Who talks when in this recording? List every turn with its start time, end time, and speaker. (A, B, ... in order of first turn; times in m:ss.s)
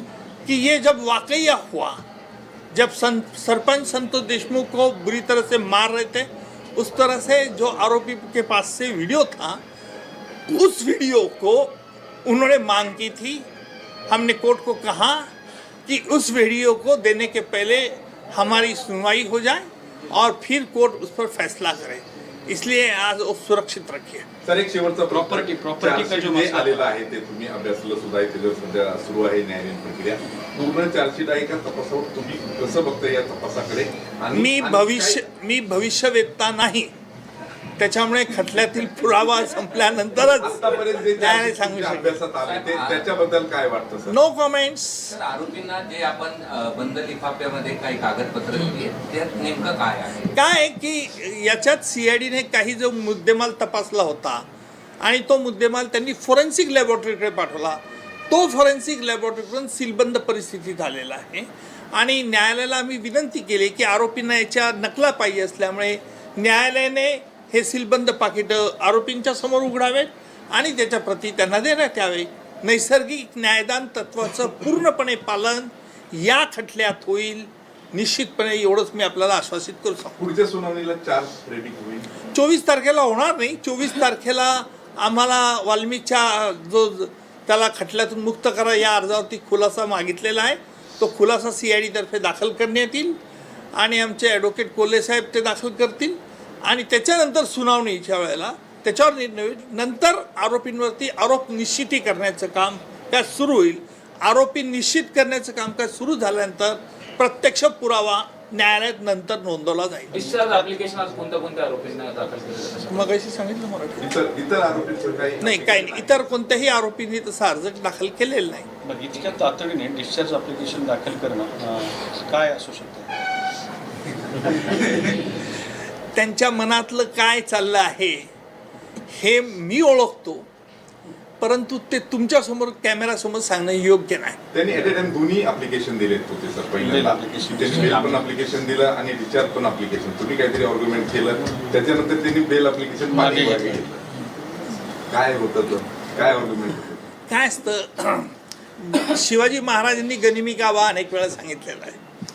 0:00.5-0:02.0 A
0:02.7-0:09.6 A
0:10.5-0:13.5 A
0:14.1-0:15.3 A
0:15.9-0:24.3 A
0:24.4-0:34.6 B
0:25.1-0:27.0 C
0:34.3-0:36.9 A
0:34.4-0:35.2 D
0:37.8-0:42.2 A
0:40.4-0:44.2 B
0:42.4-0:43.1 D
0:44.1-0:45.2 A
0:45.1-0:50.4 D
0:50.3-0:54.4 A
0:55.0-1:20.2 A
1:20.2-1:22.1 B
1:22.3-1:33.2 A
1:33.8-1:50.7 A
1:50.1-1:53.1 E
1:52.9-1:54.1 A
1:54.0-1:56.3 B
1:55.4-1:58.7 A
1:58.8-2:03.2 C
2:06.1-2:08.3 A
2:09.1-2:10.5 A
2:11.4-2:14.4 A
2:14.5-2:24.0 B
2:16.8-2:18.2 C
2:23.1-2:23.8 C
2:25.1-2:27.1 B
2:27.3-2:32.0 A